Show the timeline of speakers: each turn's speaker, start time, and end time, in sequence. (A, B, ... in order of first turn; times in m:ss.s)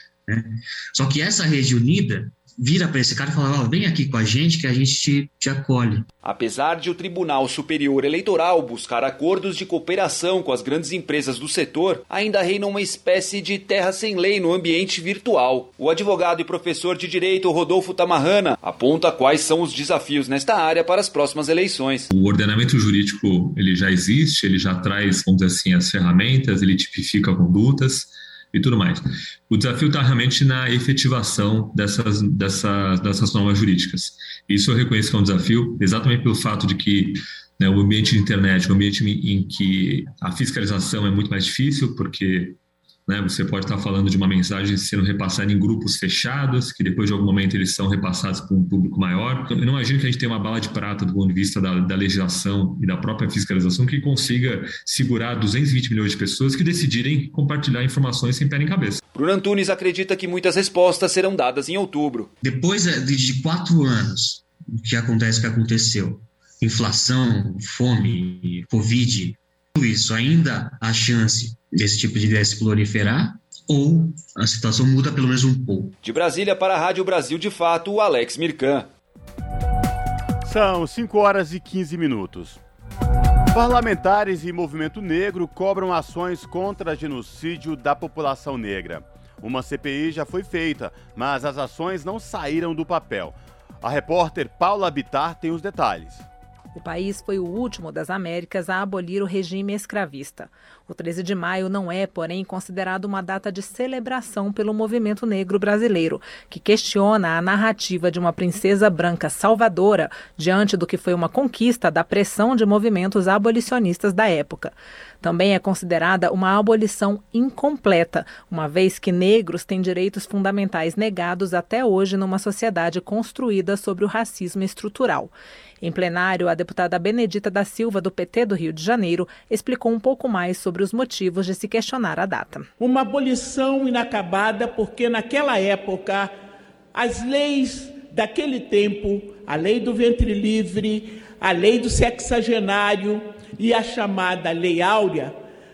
0:00.3-0:06.0 A
0:06.2-0:22.1 B
0:22.1-0:59.0 C
0:59.1-1:02.3 B
1:02.4-1:15.9 A
1:16.0-1:18.9 B
1:20.4-1:22.6 D
1:23.5-1:36.2 D
1:36.7-2:12.7 E
2:12.8-2:16.3 F
2:16.9-2:25.4 F